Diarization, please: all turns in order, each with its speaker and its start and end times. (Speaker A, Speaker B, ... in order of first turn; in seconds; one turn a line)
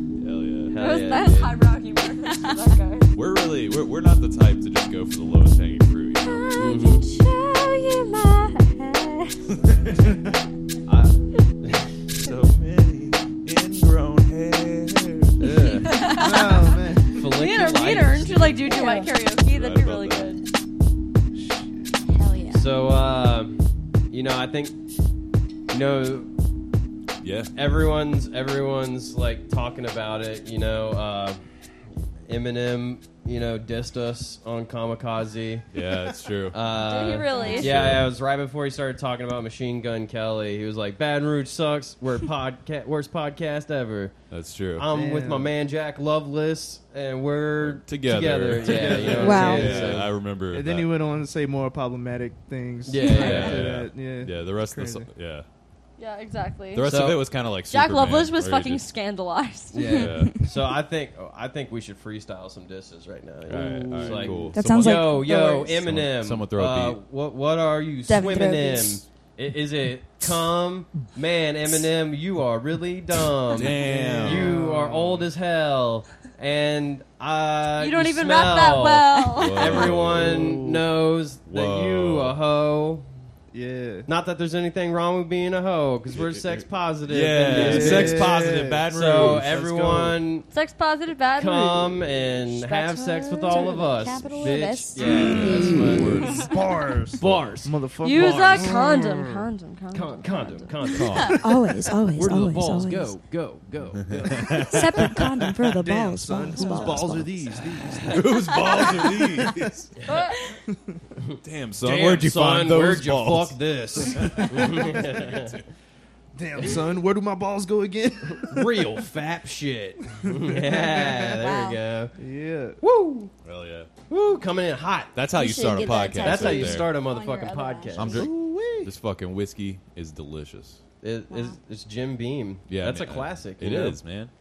Speaker A: 0.1-0.8
Speaker B: 0.7-1.6
Speaker C: 0.8-3.1
Speaker D: 2.0-2.8
Speaker A: 3.1-6.5
Speaker C: 6.2-9.4
Speaker B: 6.6-7.1
Speaker A: 9.5-10.2
Speaker B: 10.8-11.9
Speaker A: 12.2-12.6
Speaker E: 12.5-13.2
Speaker A: 13.3-15.7
Speaker B: 15.4-16.0
Speaker C: 15.9-16.3
Speaker D: 15.9-16.7
Speaker E: 16.0-17.2
Speaker B: 17.1-18.8
Speaker C: 17.2-20.4
Speaker D: 18.6-19.1
Speaker A: 19.4-20.4
Speaker E: 21.3-22.0
Speaker D: 22.0-22.7
Speaker B: 22.5-24.8
Speaker B: 25.7-26.3
Speaker A: 27.2-27.5
Speaker B: 27.5-31.4
Speaker B: 32.2-35.7
Speaker A: 35.7-36.6
Speaker B: 36.5-44.1
Speaker C: 36.8-37.7
Speaker D: 37.3-37.6
Speaker A: 37.6-38.1
Speaker A: 44.3-44.9
Speaker B: 44.8-50.1
Speaker E: 44.9-45.5
Speaker A: 47.6-50.9
Speaker E: 48.6-55.1
Speaker D: 49.2-49.8
Speaker B: 52.9-53.7
Speaker A: 53.1-55.5
Speaker C: 56.0-56.9
Speaker A: 56.7-58.8
Speaker B: 56.8-57.2
Speaker C: 57.7-59.8
Speaker B: 59.7-83.1
Speaker D: 59.8-60.6
Speaker A: 59.8-60.4
Speaker A: 63.5-67.0
Speaker E: 64.0-64.3
Speaker D: 64.5-65.8
Speaker D: 68.0-69.0
Speaker A: 73.5-74.6
Speaker E: 73.7-75.3
Speaker C: 77.8-79.9
Speaker A: 79.3-80.5
Speaker E: 79.9-80.9
Speaker A: 81.5-82.4
Speaker E: 83.5-84.1
Speaker B: 84.0-88.4
Speaker A: 86.1-89.5
Speaker E: 87.4-90.2
Speaker B: 88.9-90.5
Speaker C: 90.5-91.9
Speaker B: 91.4-96.5
Speaker D: 92.6-96.2
Speaker C: 92.7-94.0
Speaker E: 95.0-98.9
Speaker A: 95.1-96.5
Speaker B: 97.2-101.3
Speaker C: 98.0-100.9
Speaker A: 100.9-101.3
Speaker E: 101.2-101.6
Speaker D: 101.2-103.1
Speaker B: 102.2-104.7
Speaker E: 104.1-105.2
Speaker A: 104.1-105.5
Speaker D: 104.7-108.0
Speaker E: 105.8-109.8
Speaker B: 107.9-108.2
Speaker A: 108.1-109.9
Speaker D: 108.5-109.0
Speaker C: 110.0-110.4
Speaker E: 110.6-111.0
Speaker B: 111.2-115.6
Speaker A: 111.4-115.6
Speaker E: 114.0-115.0
Speaker E: 116.3-119.0
Speaker B: 118.3-122.2
Speaker E: 120.1-121.3
Speaker D: 120.7-121.8
Speaker E: 122.2-122.8
Speaker B: 122.8-123.3
Speaker A: 123.4-123.9
Speaker B: 124.1-125.2
Speaker A: 125.1-126.9
Speaker D: 125.3-128.3
Speaker B: 126.1-128.3
Speaker A: 128.0-130.8
Speaker E: 128.2-128.9
Speaker B: 131.0-134.0
Speaker D: 131.3-131.6
Speaker A: 132.7-134.3